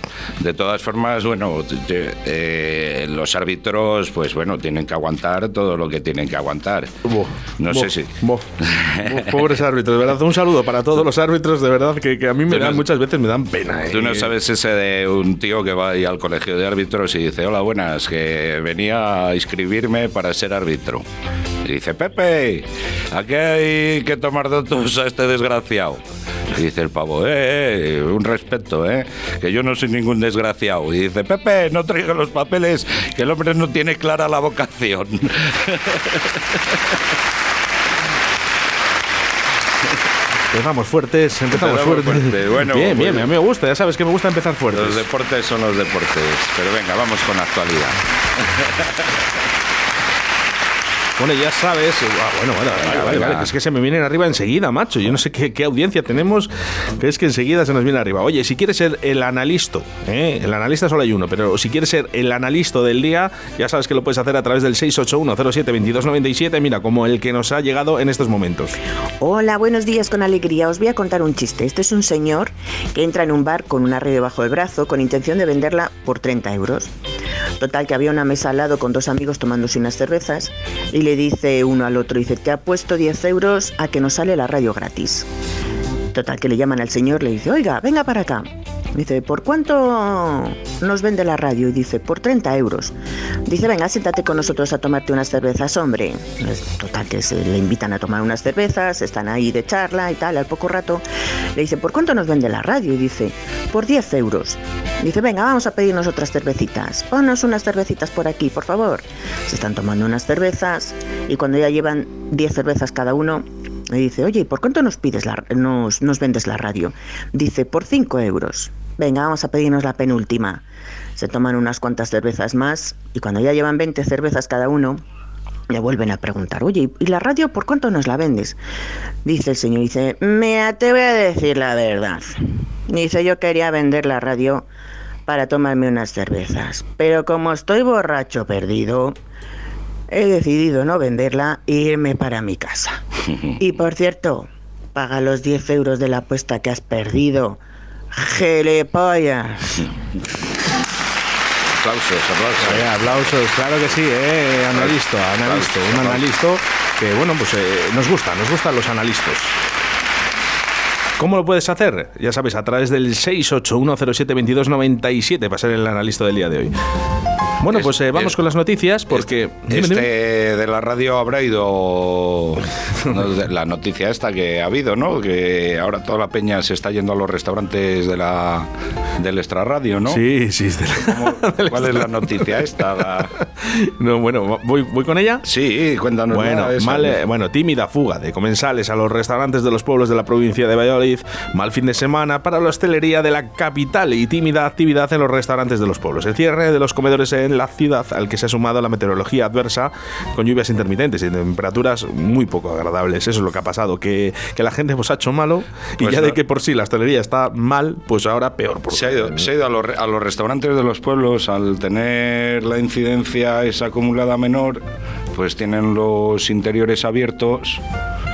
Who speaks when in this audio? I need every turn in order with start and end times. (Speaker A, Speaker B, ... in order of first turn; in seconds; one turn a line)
Speaker A: 0.4-6.9
Speaker B: 7.0-14.3
Speaker A: 7.6-9.5
Speaker A: 12.5-12.9
Speaker A: 13.9-21.0
Speaker A: 21.6-36.6
Speaker B: 40.5-45.0
Speaker A: 41.5-43.3
Speaker A: 44.7-48.0
Speaker A: 48.5-48.8
Speaker B: 51.2-68.7
Speaker A: 52.8-53.5
Speaker C: 69.2-76.9
Speaker C: 77.6-85.3
Speaker C: 86.1-92.9
Speaker C: 93.5-101.0
Speaker C: 101.5-120.6
Speaker C: 121.2-125.0
Speaker C: 125.7-128.6
Speaker C: 129.2-134.7
Speaker C: 135.3-139.2
Speaker C: 140.1-143.0
Speaker C: 143.6-147.6
Speaker C: 148.1-149.9
Speaker A: 151.8-153.4
Speaker B: 152.6-159.6
Speaker A: 154.7-156.3
Speaker B: 161.2-166.7
Speaker B: 167.6-170.1
Speaker A: 167.7-168.4
Speaker A: 169.1-180.2
Speaker B: 180.1-182.6
Speaker A: 180.9-183.3
Speaker B: 183.4-185.4
Speaker A: 185.4-187.2
Speaker B: 186.3-209.5
Speaker A: 206.0-206.4
Speaker A: 208.9-214.8
Speaker A: 215.3-217.8